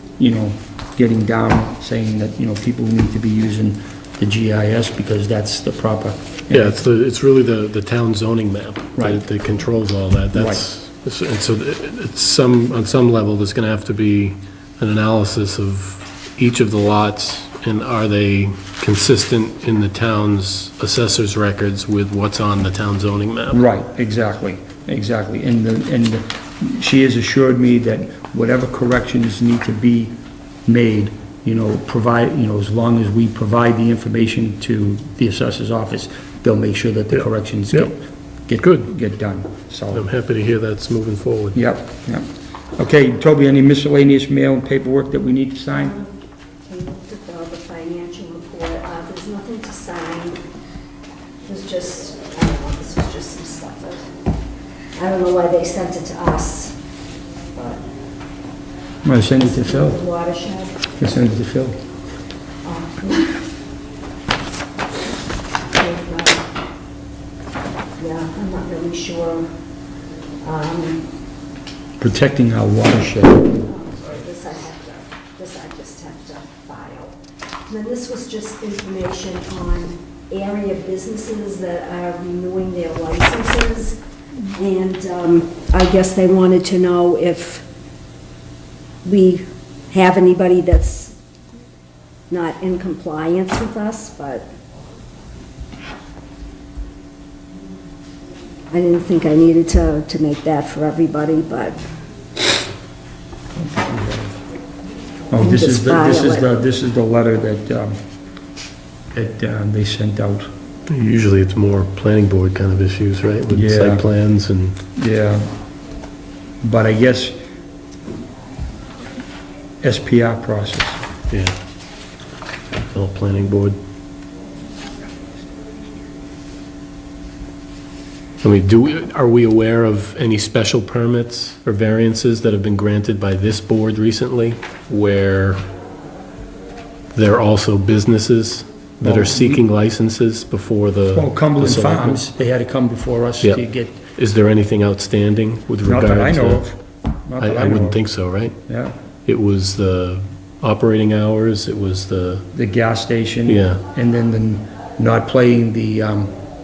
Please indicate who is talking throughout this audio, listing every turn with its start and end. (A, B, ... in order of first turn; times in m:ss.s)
0:00.2-0:06.8 A
0:06.5-0:23.6 B
0:09.0-0:09.2 A
0:10.3-0:10.6 A
0:23.5-0:40.1 A
0:37.1-0:37.9 B
0:38.6-0:38.9 B
0:39.9-0:41.6 B
0:41.5-0:46.0 A
0:45.7-0:50.4 C
0:51.4-0:54.1 C
0:55.0-0:56.8 C
0:57.5-0:57.8 C
0:59.0-1:00.0 A
0:59.4-1:00.8 C
1:01.0-1:01.8 A
1:02.6-1:03.5 C
1:05.7-1:06.5 C
1:08.0-1:09.5 C
1:10.4-1:11.1 C
1:12.0-1:13.6 A
1:13.6-1:24.0 C
1:24.5-1:27.6 C
1:29.0-1:31.2 C
1:32.3-1:34.5 C
1:38.7-1:41.8 C
1:43.6-1:44.4 A
1:45.3-1:48.0 A
1:45.4-1:46.5 C
1:49.1-1:50.5 A
1:50.9-1:54.8 B
1:53.5-1:54.1 A
1:55.0-1:55.5 A
1:56.6-1:57.4 A
1:59.8-2:01.0 A
2:01.3-2:01.6 B
2:02.9-2:03.8 B
2:08.4-2:15.6 B
2:17.1-2:22.2 B
2:19.0-2:19.6 A
2:21.1-2:24.0 A
2:23.4-2:26.7 B
2:25.8-2:28.9 A
2:27.4-2:28.6 B
2:29.3-2:32.5 B
2:32.5-2:36.3 A
2:33.5-2:33.8 B